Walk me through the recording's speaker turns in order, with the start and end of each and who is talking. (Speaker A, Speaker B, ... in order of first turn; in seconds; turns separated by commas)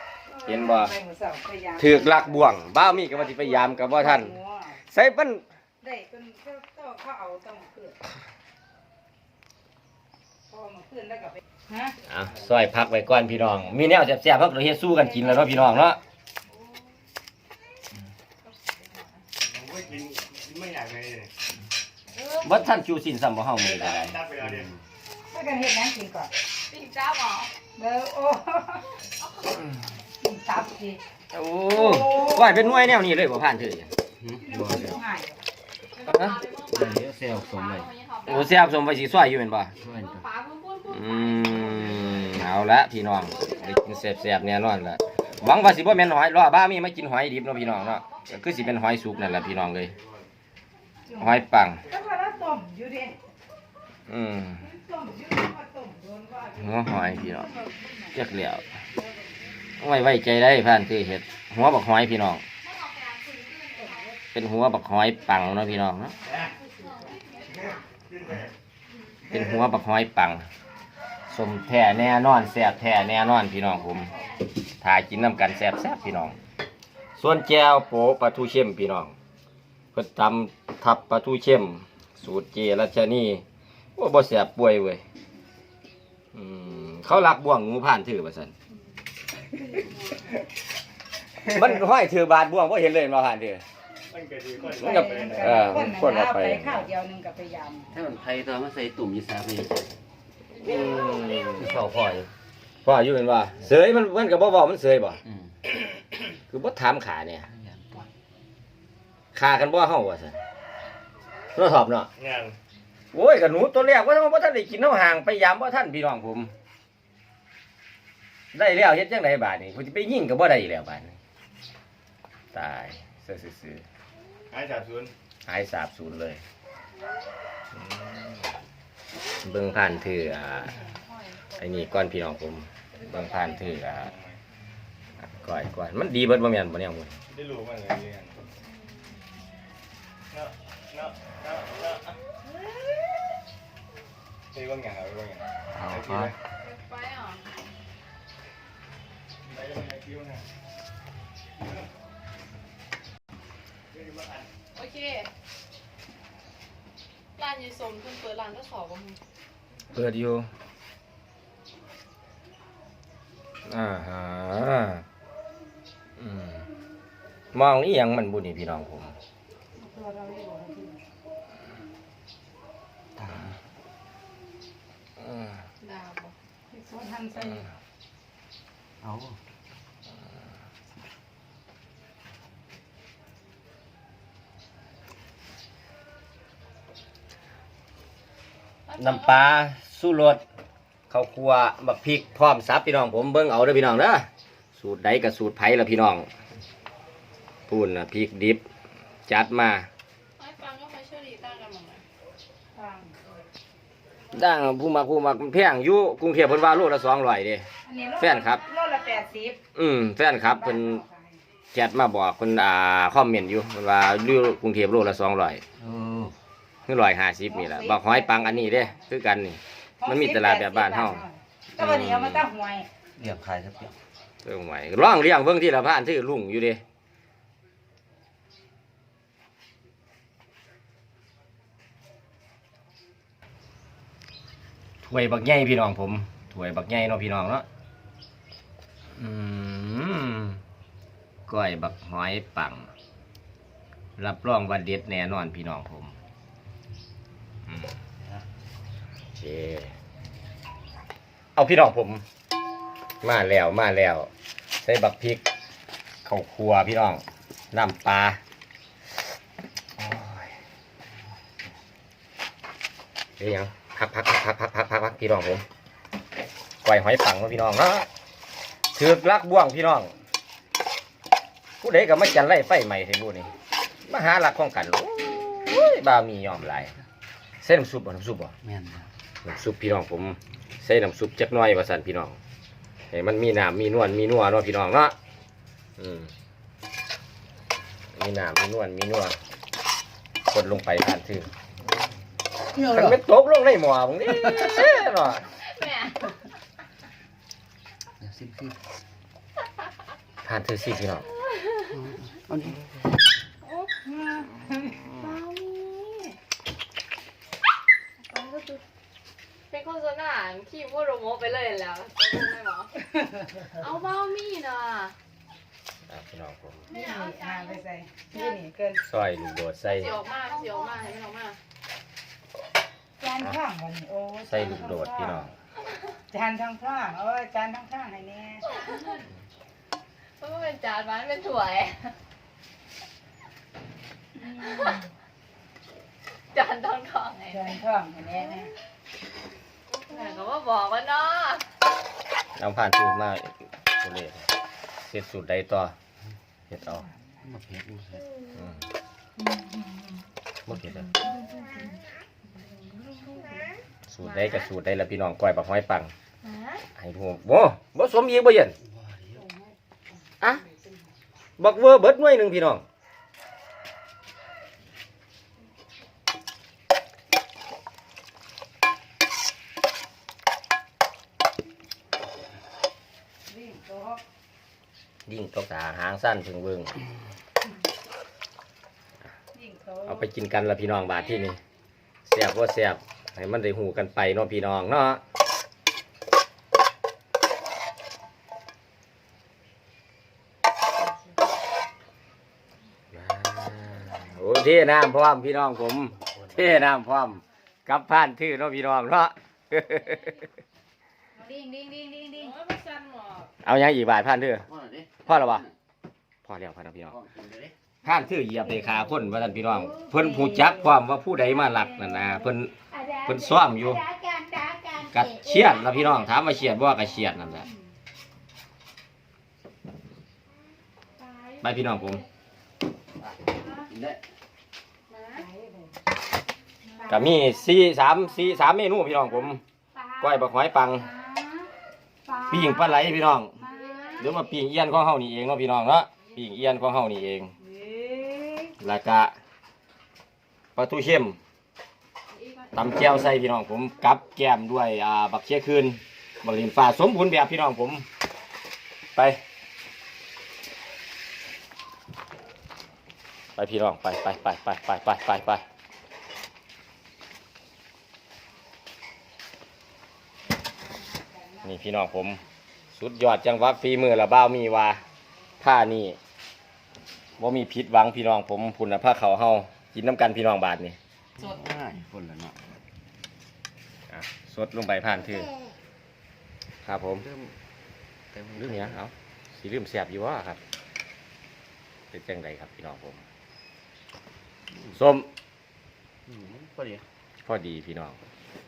Speaker A: 0.3-4.8, Speaker B: 0.4-0.9, Speaker B: 1.8-5.4, Speaker A: 5.8-8.0, Speaker A: 10.5-12.0, Speaker B: 12.0-16.0, Speaker A: 14.9-15.5, Speaker C: 18.4-19.2, Speaker D: 19.4-21.3, Speaker B: 22.3-24.2, Speaker D: 23.7-24.7, Speaker E: 24.4-24.7, Speaker A: 25.3-26.3, Speaker C: 26.7-27.5, Speaker A: 27.7-28.9, Speaker B: 29.6-29.8, Speaker A: 30.2-31.0, Speaker B: 31.3-33.9, Speaker A: 31.8-32.8, Speaker E: 34.2-35.0, Speaker A: 34.4-35.4, Speaker C: 35.9-38.6, Speaker B: 36.1-36.3, Speaker E: 36.7-37.9, Speaker B: 38.3-39.7, Speaker E: 39.8-40.2, Speaker C: 39.9-42.4, Speaker B: 40.9-49.9, Speaker C: 43.2-44.3, Speaker C: 47.5-49.5, Speaker A: 51.1-53.1, Speaker B: 51.2-51.8, Speaker B: 54.1-54.6, Speaker A: 54.6-58.2, Speaker B: 56.6-57.5, Speaker B: 58.1-58.6, Speaker A: 58.9-59.3, Speaker B: 59.8-62.4, Speaker C: 62.6-64.1, Speaker B: 64.3-66.2, Speaker B: 69.3-70.5, Speaker B: 71.3-74.1, Speaker B: 74.8-76.3, Speaker B: 77.2-79.1, Speaker B: 79.9-83.4, Speaker B: 84.0-85.0, Speaker B: 86.3-88.5, Speaker C: 89.8-90.2, Speaker B: 91.4-93.6, Speaker D: 94.1-95.6, Speaker A: 94.6-97.9, Speaker B: 94.8-96.9, Speaker E: 97.9-99.9, Speaker B: 100.6-101.8, Speaker E: 101.6-102.3, Speaker B: 102.8-105.2, Speaker B: 106.5-107.5, Speaker E: 107.5-108.1, Speaker B: 109.3-110.4, Speaker B: 111.5-112.1, Speaker D: 112.2-112.5, Speaker B: 113.1-116.5, Speaker B: 118.5-121.2, Speaker B: 122.5-123.8, Speaker D: 124.5-125.1, Speaker B: 125.5-126.4, Speaker B: 127.8-128.2, Speaker B: 129.4-130.7, Speaker C: 129.5-131.5, Speaker B: 131.6-134.1, Speaker B: 135.2-137.2, Speaker D: 137.3-138.4, Speaker C: 138.6-139.2, Speaker D: 140.3-142.2, Speaker D: 144.5-146.3, Speaker E: 145.8-146.3, Speaker C: 146.6-147.4, Speaker D: 149.4-150.4, Speaker D: 153.9-154.4, Speaker C: 154.7-155.3, Speaker C: 157.4-159.2, Speaker B: 159.9-160.5, Speaker B: 163.7-165.0, Speaker B: 166.2-166.6, Speaker B: 167.5-169.2, Speaker A: 169.8-171.0, Speaker E: 173.2-173.6, Speaker B: 175.2-175.6, Speaker C: 175.8-176.3, Speaker A: 176.7-177.6, Speaker B: 177.4-177.7, Speaker E: 179.0-179.4, Speaker C: 188.9-189.4, Speaker B: 189.0-190.4, Speaker B: 191.1-196.3, Speaker B: 197.7-198.6, Speaker B: 199.3-199.9, Speaker C: 200.4-202.0, Speaker A: 202.7-203.2, Speaker B: 204.3-207.7, Speaker A: 207.8-209.6, Speaker B: 208.2-208.6, Speaker B: 209.7-211.0, Speaker A: 210.4-211.4, Speaker B: 211.7-215.6, Speaker E: 215.8-216.3, Speaker B: 216.9-221.2, Speaker A: 217.5-219.1, Speaker A: 220.0-222.9, Speaker B: 221.8-222.4, Speaker E: 223.2-223.9, Speaker B: 224.4-226.8, Speaker B: 235.0-237.6, Speaker B: 239.2-240.6, Speaker B: 241.5-242.9, Speaker B: 244.2-246.1, Speaker B: 247.7-247.9, Speaker B: 249.4-249.9, Speaker B: 251.6-252.2, Speaker B: 253.2-254.3, Speaker B: 254.8-255.4, Speaker B: 256.2-258.4, Speaker B: 260.0-260.5, Speaker B: 263.4-265.6, Speaker B: 266.8-268.1, Speaker B: 268.9-270.1, Speaker B: 271.8-273.5, Speaker B: 274.0-276.9, Speaker B: 277.6-278.5, Speaker E: 278.6-279.1, Speaker B: 279.4-282.4, Speaker B: 283.1-285.1, Speaker B: 286.0-286.3, Speaker B: 288.1-289.4, Speaker B: 290.5-291.5, Speaker E: 292.7-293.2, Speaker B: 292.9-295.5, Speaker C: 295.5-296.3, Speaker E: 298.2-298.8, Speaker B: 300.4-301.2, Speaker C: 301.5-301.9, Speaker E: 301.9-302.9, Speaker A: 303.9-305.0, Speaker C: 305.1-306.4, Speaker C: 308.2-308.8, Speaker C: 309.7-312.9, Speaker A: 313.1-313.8, Speaker C: 313.7-315.1, Speaker B: 316.1-316.8, Speaker C: 316.9-317.8, Speaker A: 316.9-319.0, Speaker B: 319.0-320.1, Speaker C: 319.9-321.6, Speaker A: 323.2-325.5, Speaker B: 324.4-325.5, Speaker A: 326.3-328.6, Speaker C: 328.7-329.2, Speaker C: 330.4-332.1, Speaker A: 334.4-335.0, Speaker C: 334.6-335.0, Speaker C: 336.5-337.8, Speaker A: 337.5-338.7, Speaker C: 340.0-341.6, Speaker B: 342.6-344.5, Speaker B: 345.1-345.9, Speaker B: 346.7-347.1, Speaker E: 347.4-348.3, Speaker C: 349.4-350.2, Speaker B: 350.7-351.1, Speaker C: 351.1-352.0, Speaker C: 352.7-353.6, Speaker B: 354.1-356.1, Speaker C: 354.2-354.7, Speaker C: 356.4-356.8, Speaker B: 356.9-358.8, Speaker E: 358.8-359.5, Speaker B: 361.6-362.8, Speaker A: 373.5-374.2, Speaker B: 375.2-377.0, Speaker A: 379.5-380.2, Speaker B: 380.1-381.6, Speaker B: 382.2-385.2, Speaker B: 393.1-400.4, Speaker A: 401.3-402.6, Speaker C: 402.3-403.5, Speaker B: 403.6-404.6, Speaker E: 404.7-405.7, Speaker B: 405.2-405.6, Speaker B: 406.4-407.2, Speaker E: 407.1-407.7, Speaker B: 408.0-414.1, Speaker A: 410.1-410.5, Speaker A: 414.1-414.8, Speaker B: 414.9-417.7, Speaker B: 421.6-422.2, Speaker E: 423.9-424.2, Speaker A: 425.1-426.0, Speaker A: 427.0-427.5, Speaker B: 427.1-429.6, Speaker A: 429.9-430.2, Speaker B: 430.2-431.1, Speaker A: 431.0-431.7, Speaker A: 432.2-432.8, Speaker B: 432.5-433.6, Speaker A: 433.6-434.3, Speaker C: 433.6-434.3, Speaker B: 434.2-437.5, Speaker A: 437.6-438.7, Speaker B: 438.8-439.3, Speaker B: 440.8-441.4, Speaker C: 442.3-443.1, Speaker B: 442.7-448.0, Speaker B: 453.6-455.6, Speaker A: 460.9-461.7, Speaker B: 461.6-462.4, Speaker B: 462.9-465.0, Speaker B: 465.6-466.2, Speaker B: 467.4-471.0, Speaker E: 471.4-472.6, Speaker B: 474.1-475.5, Speaker B: 476.8-477.2, Speaker E: 477.2-477.5, Speaker E: 478.3-479.0, Speaker B: 478.6-480.6, Speaker B: 482.1-483.2, Speaker B: 484.9-485.3, Speaker E: 486.3-487.0, Speaker B: 487.4-488.1